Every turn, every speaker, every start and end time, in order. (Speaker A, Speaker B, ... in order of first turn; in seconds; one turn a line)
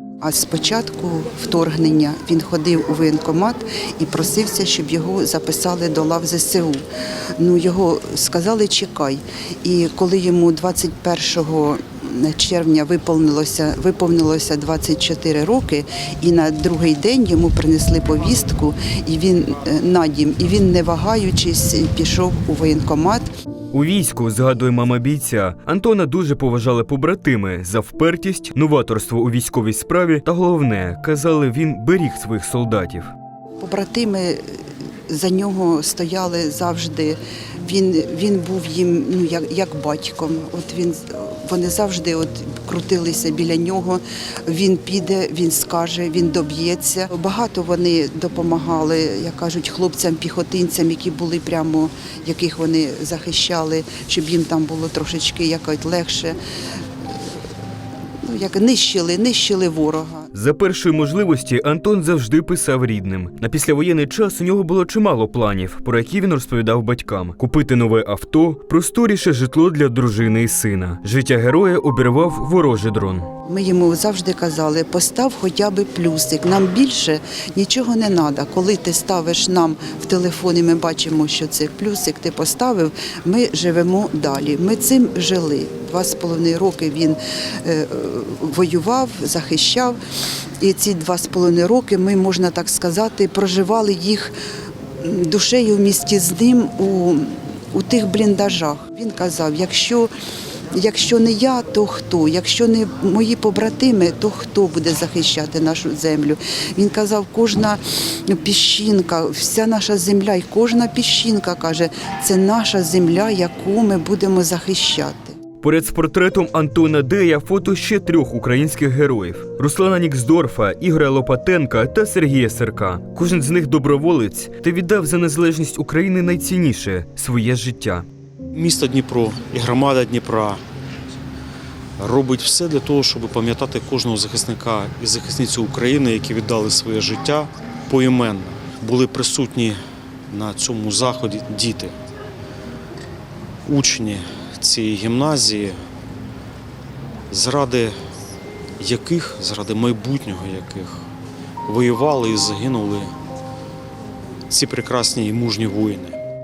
Speaker A: 0.2-6.8
Speaker A: 7.4-23.3
Speaker B: 23.7-33.1
Speaker A: 33.6-34.5
Speaker A: 35.1-56.4
Speaker A: 58.2-60.3
Speaker B: 60.3-73.3
Speaker A: 73.5-90.0
Speaker A: 90.6-94.3
Speaker A: 95.0-100.1
Speaker A: 100.7-115.4
Speaker B: 115.6-128.1
Speaker C: 128.5-130.6
Speaker C: 132.0-139.8
Speaker C: 140.3-141.9
Speaker C: 143.7-145.8
Speaker C: 147.3-147.9
Speaker C: 148.8-151.1
Speaker C: 151.7-153.1
Speaker C: 154.5-156.2